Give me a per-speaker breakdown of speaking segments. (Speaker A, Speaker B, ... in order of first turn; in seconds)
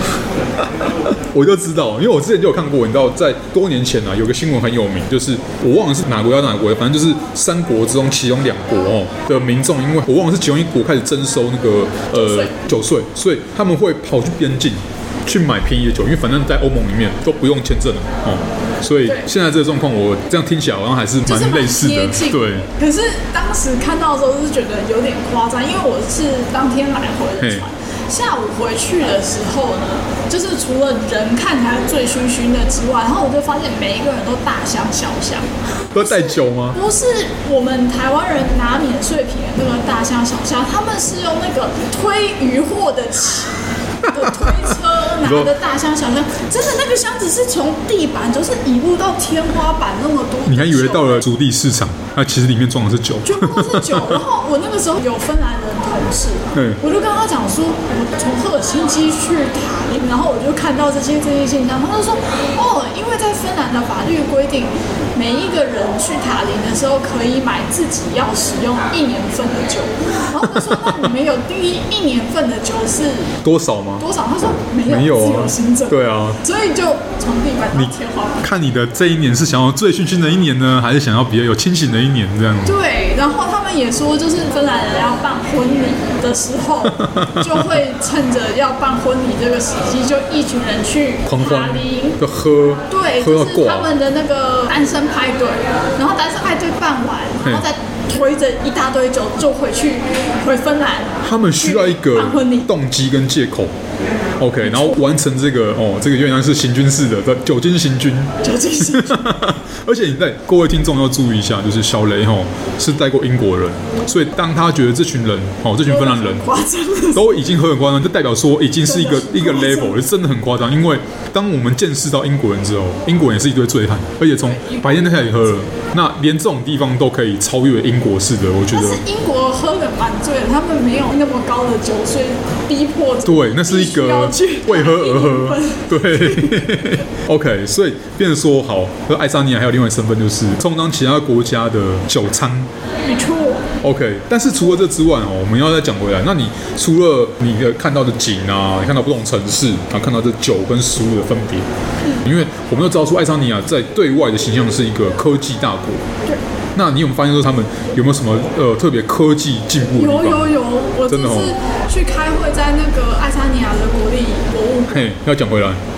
Speaker A: 0.8-22.7, 27.4-27.6, 35.9-36.8, 44.0-45.5, 50.5-54.2, 56.5-56.8, 70.4-71.1, 73.4-74.0, 74.8-76.4, 77.7-82.8, 87.0-87.8, 91.2-94.0, 101.2-103.7, 104.4-116.5, 117.1-129.0, 133.2-142.7, 143.8-151.7, 152.2-156.0, 156.7-160.5, 161.1-161.5, 164.9-165.8
Speaker B: 12.1-12.5, 21.2-51.3, 53.2-73.4, 74.0-78.5, 82.6-92.2, 92.9-102.7, 104.6-105.0, 108.4-109.3, 115.8-117.4, 118.8-120.0, 124.3-125.7, 128.7-136.8, 143.0-143.7, 152.0-152.3, 159.9-165.1